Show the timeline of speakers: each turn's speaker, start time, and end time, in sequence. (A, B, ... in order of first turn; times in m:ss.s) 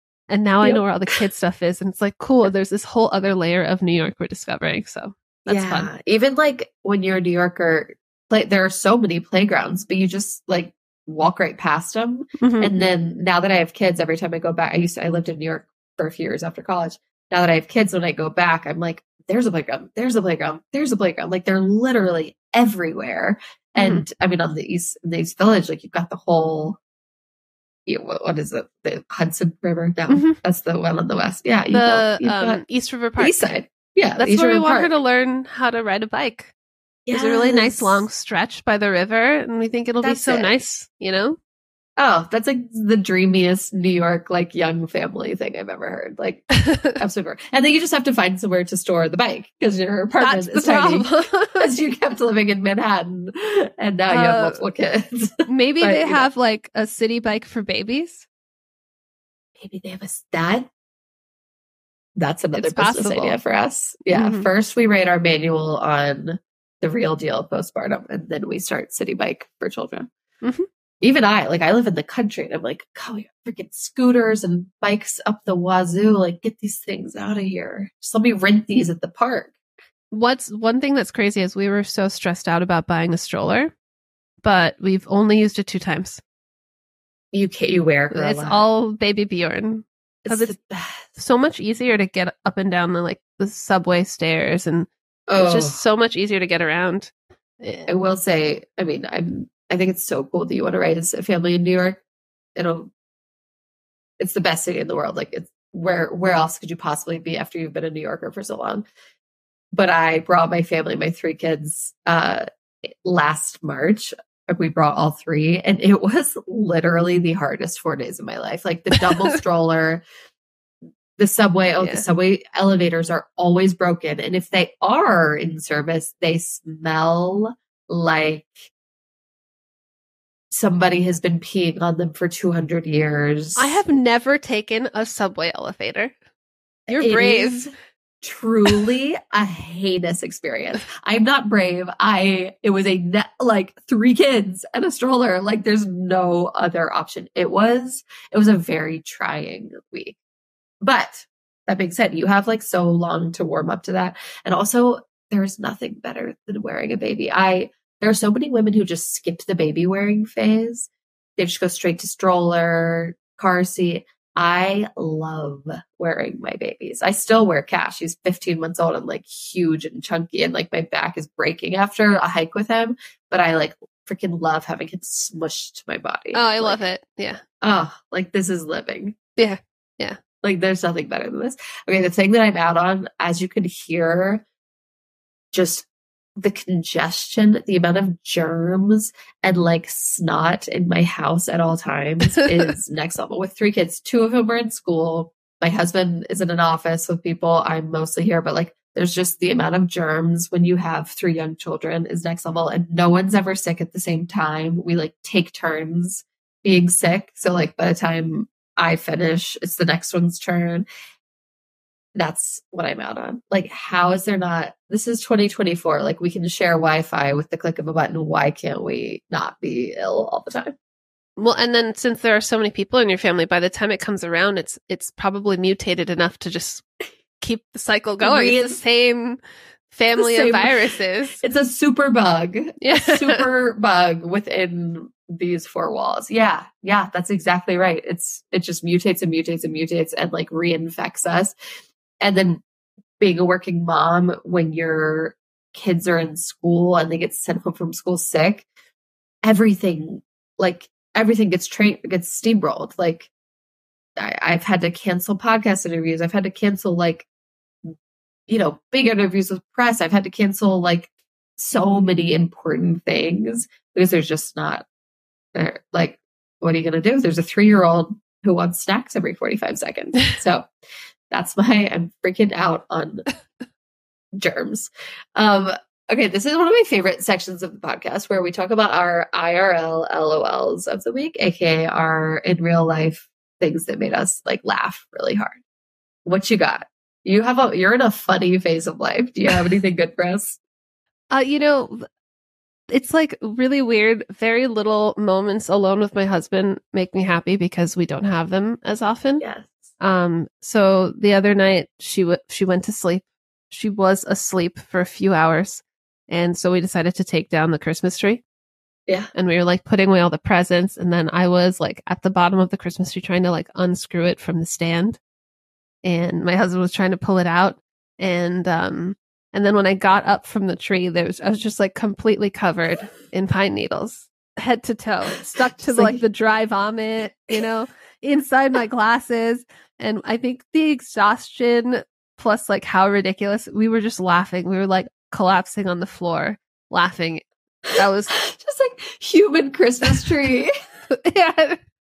0:00.3-0:05.9 A
0:05.4-0:26.8 B
0:12.4-0:12.8 A
0:23.8-0:24.0 A
0:27.9-0:32.6 B
0:30.1-0:30.4 A
0:31.7-0:33.5 A
0:33.2-0:34.9 B
0:34.2-0:36.5 A
0:37.1-0:38.0 B
0:37.1-0:41.4 A
0:40.0-0:40.5 B
0:42.0-0:56.3 B
0:46.5-0:46.9 A
0:50.2-0:51.7 A
0:54.1-0:54.6 A
0:55.5-0:58.2 A
0:59.6-1:00.7 B
1:02.2-1:10.1 B
1:02.6-1:03.4 A
1:04.1-1:04.5 A
1:10.4-1:10.7 A
1:11.0-1:19.5 B
1:20.1-1:23.7 A
1:24.4-1:26.2 A
1:27.3-1:28.6 B
1:28.1-1:30.6 A
1:30.2-1:31.1 B
1:31.2-1:37.9 A
1:35.3-1:35.8 B
1:37.9-1:42.0 B
1:42.6-1:42.9 B
1:44.2-1:48.8 B
1:49.7-2:00.0 B
2:01.2-2:08.7 B
2:10.5-2:13.8 B
2:13.6-2:16.1 A
2:16.9-2:17.7 A
2:16.9-2:30.2 B
2:30.8-2:56.8 B
2:56.3-2:57.4 A
2:57.6-2:59.2 B
2:59.4-3:00.2 A
3:00.4-3:04.4 B
3:05.5-3:05.9 B
3:06.4-3:30.8 B
3:32.2-3:40.7 B
3:41.4-3:46.9 A
3:47.4-3:51.4 A
3:48.2-3:48.8 B
3:50.2-4:01.5 B
3:52.8-3:53.4 A
4:02.2-4:02.6 B
4:03.2-4:08.6 B
4:09.4-4:13.3 B
4:14.2-4:17.3 B
4:18.5-4:24.8 B
4:25.6-4:30.7 B
4:31.3-4:33.3 B
4:34.3-4:45.6 B
4:46.2-4:50.6 B
4:51.3-4:52.0 A
4:52.9-4:59.4 A
4:59.4-4:59.9 B
5:00.0-5:08.4 A
5:09.3-5:15.2 A
5:16.0-5:37.4 A
5:25.4-5:26.2 B
5:38.0-5:38.4 A
5:38.4-5:40.7 B
5:41.1-5:41.8 A